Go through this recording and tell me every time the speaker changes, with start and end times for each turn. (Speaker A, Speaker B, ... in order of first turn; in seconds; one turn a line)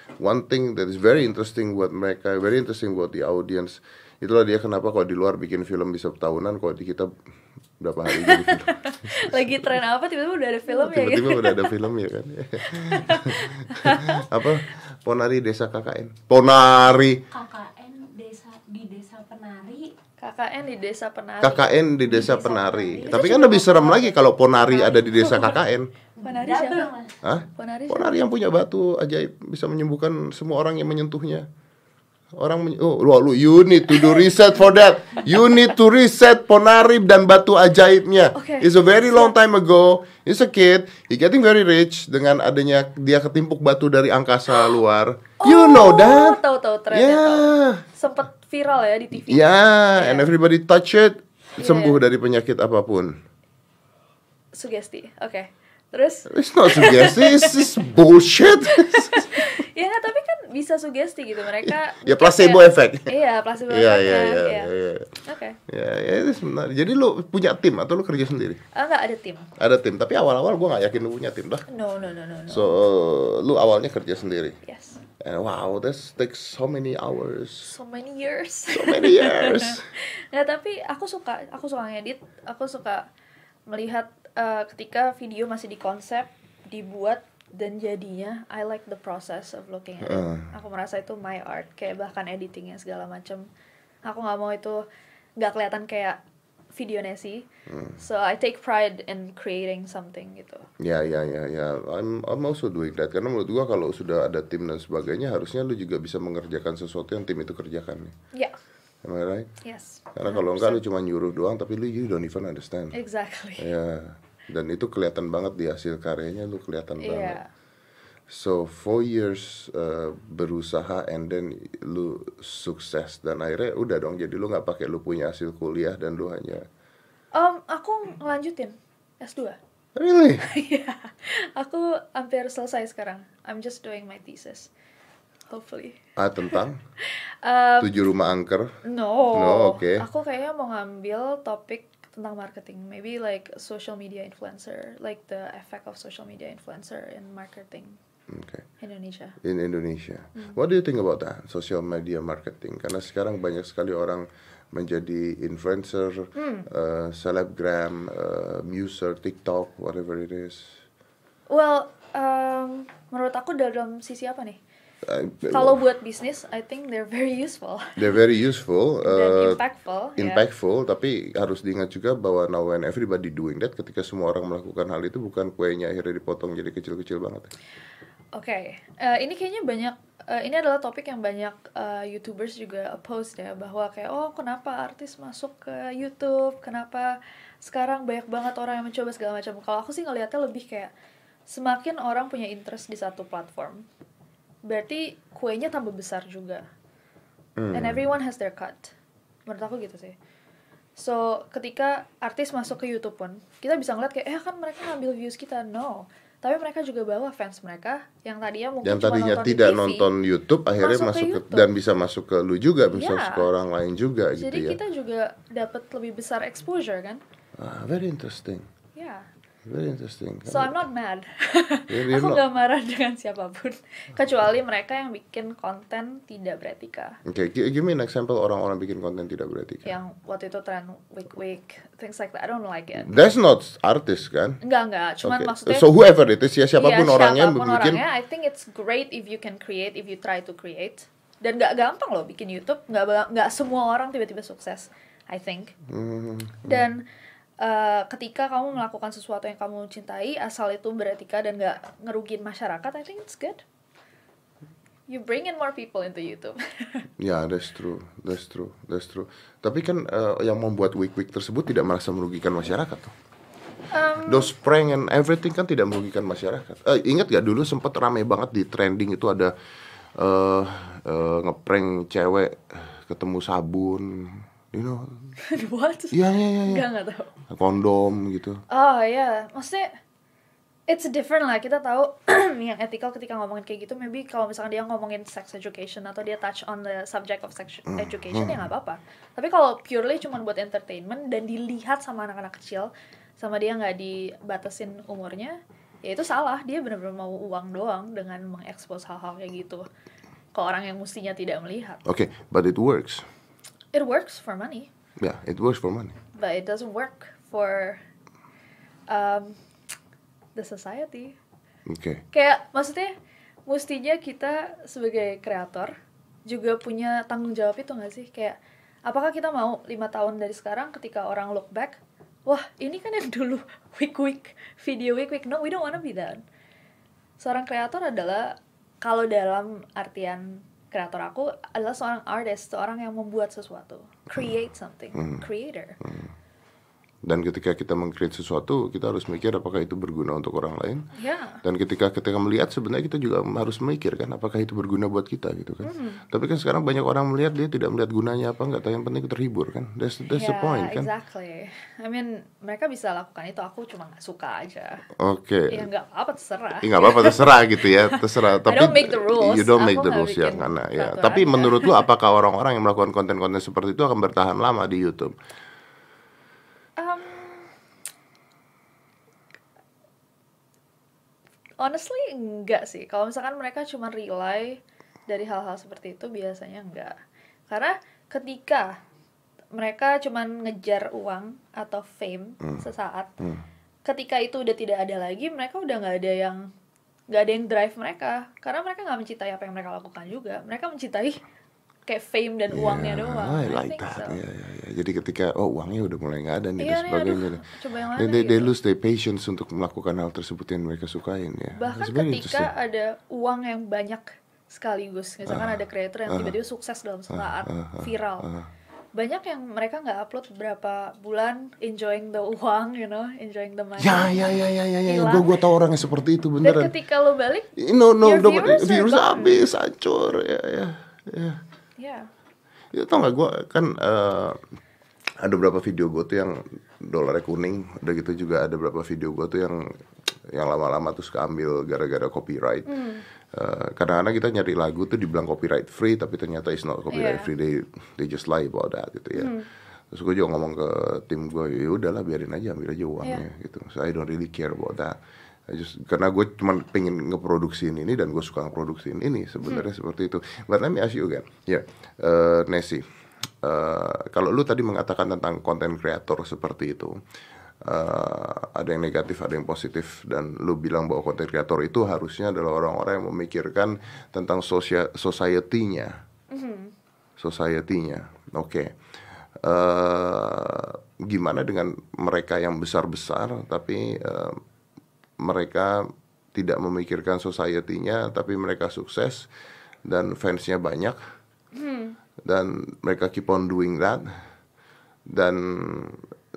Speaker A: 0.2-7.1
Speaker A: 7.8-9.6
Speaker B: 8.1-11.7
Speaker A: 10.7-17.2
Speaker B: 12.7-14.3
Speaker C: 17.3-19.9
Speaker B: 20.2-21.8
Speaker A: 21.4-25.9
Speaker C: 22.0-24.0
Speaker B: 23.0-24.1
Speaker B: 24.7-25.6
Speaker C: 26.2-27.1
Speaker B: 26.2-26.9
Speaker A: 27.2-31.5
Speaker B: 27.5-28.2
Speaker A: 32.3-46.4
Speaker B: 33.9-34.2
Speaker B: 38.3-39.3
Speaker B: 45.4-50.3
Speaker A: 46.9-47.8
Speaker A: 49.1-53.1
Speaker B: 51.6-52.0
Speaker B: 54.5-57.9
Speaker A: 56.3-59.6
Speaker B: 58.6-64.7
Speaker A: 61.6-63.1
Speaker A: 63.7-68.6
Speaker B: 65.2-65.6
Speaker B: 68.7-69.5
Speaker A: 69.6-71.6
Speaker B: 71.7-72.7
Speaker A: 72.5-74.6
Speaker B: 74.6-75.0
Speaker A: 75.2-77.7
Speaker B: 77.6-83.0
Speaker A: 78.7-79.8
Speaker B: 83.7-93.5
Speaker A: 90.0-90.5
Speaker B: 94.0-94.8
Speaker B: 95.4-96.2
Speaker B: 96.7-97.5
Speaker A: 97.7-98.0
Speaker B: 98.0-100.7
Speaker A: 100.8-108.1
Speaker A: 109.0-109.5
Speaker B: 109.6-110.8
Speaker A: 110.1-112.9
Speaker B: 112.9-113.7
Speaker A: 113.6-117.4
Speaker B: 117.0-117.5
Speaker A: 118.3-126.7
Speaker B: 127.3-129.6
Speaker A: 129.9-130.4
Speaker B: 130.4-134.7
Speaker B: 135.5-136.0
Speaker A: 136.2-136.8
Speaker B: 136.5-138.0
Speaker A: 137.8-138.7
Speaker B: 138.8-148.0
Speaker A: 139.3-140.1
Speaker A: 148.3-148.6
Speaker B: 148.8-149.4
Speaker A: 149.4-160.8
Speaker B: 156.3-156.7
Speaker B: 161.5-164.6
Speaker A: 165.0-165.8
Speaker B: 165.5-168.1
Speaker A: 168.0-169.6
Speaker B: 169.0-170.4
Speaker A: 170.2-177.5
Speaker B: 178.3-190.9
Speaker B: 191.5-193.8
Speaker B: 194.7-196.6
Speaker A: 197.6-198.0
Speaker B: 197.7-198.9
Speaker B: 199.5-200.2
Speaker B: 201.0-210.1
Speaker A: 208.8-214.8
Speaker B: 210.8-211.7
Speaker B: 212.9-213.5
Speaker B: 214.4-217.2
Speaker A: 217.6-218.7
Speaker B: 218.9-219.3
Speaker A: 219.7-220.8
Speaker B: 220.4-227.2
Speaker A: 221.9-222.4
Speaker A: 227.2-229.9
Speaker B: 229.8-233.1
Speaker A: 233.0-234.6
Speaker B: 234.6-235.9
Speaker A: 235.2-238.0
Speaker B: 236.8-245.7
Speaker A: 245.9-246.9
Speaker B: 246.6-247.0
Speaker B: 247.6-253.6
Speaker B: 255.1-257.1
Speaker A: 257.2-263.1
Speaker B: 263.9-264.5
Speaker A: 264.2-269.5
Speaker A: 270.2-275.2
Speaker B: 275.4-277.3
Speaker A: 276.1-276.9
Speaker A: 277.5-278.6
Speaker B: 278.7-279.9
Speaker B: 280.9-299.8
Speaker A: 287.9-288.7
Speaker B: 300.5-302.0
Speaker A: 302.0-303.3
Speaker B: 303.9-304.9
Speaker A: 305.2-306.1
Speaker B: 306.3-308.0
Speaker B: 309.1-309.6
Speaker B: 310.6-311.4
Speaker A: 311.9-312.2
Speaker B: 312.3-313.1
Speaker B: 313.7-315.9
Speaker B: 316.5-326.4
Speaker B: 327.4-336.0
Speaker A: 335.1-335.4
Speaker A: 336.0-336.3
Speaker A: 337.2-341.1
Speaker B: 341.1-341.6
Speaker A: 341.6-351.1
Speaker B: 345.8-346.2
Speaker B: 350.3-355.0
Speaker A: 355.2-355.9
Speaker B: 355.7-362.1
Speaker A: 356.8-365.3
Speaker B: 367.0-367.7
Speaker B: 371.8-377.2
Speaker B: 377.7-379.0
Speaker B: 379.7-383.3
Speaker B: 384.0-386.7
Speaker B: 387.3-391.4
Speaker B: 392.1-394.4
Speaker A: 392.7-402.7
Speaker B: 396.8-398.7
Speaker B: 401.8-408.5
Speaker A: 405.4-406.5
Speaker A: 407.3-408.7
Speaker B: 409.1-415.6
Speaker A: 414.0-416.9
Speaker B: 416.6-419.7
Speaker A: 417.8-421.6
Speaker B: 422.0-422.3
Speaker A: 422.9-424.6
Speaker A: 425.4-429.9
Speaker A: 430.5-432.9
Speaker B: 432.9-433.2
Speaker A: 433.5-439.5
Speaker B: 437.1-437.5
Speaker B: 439.4-439.7
Speaker A: 440.1-445.2
Speaker B: 443.2-443.5
Speaker A: 445.7-453.0
Speaker B: 449.6-449.9
Speaker A: 453.6-457.2
Speaker A: 457.8-466.2
Speaker B: 466.5-466.9
Speaker A: 467.4-468.9
Speaker A: 469.6-474.6
Speaker A: 475.4-479.5
Speaker A: 480.1-481.2
Speaker B: 481.7-482.2
Speaker A: 482.4-484.3
Speaker A: 485.3-486.2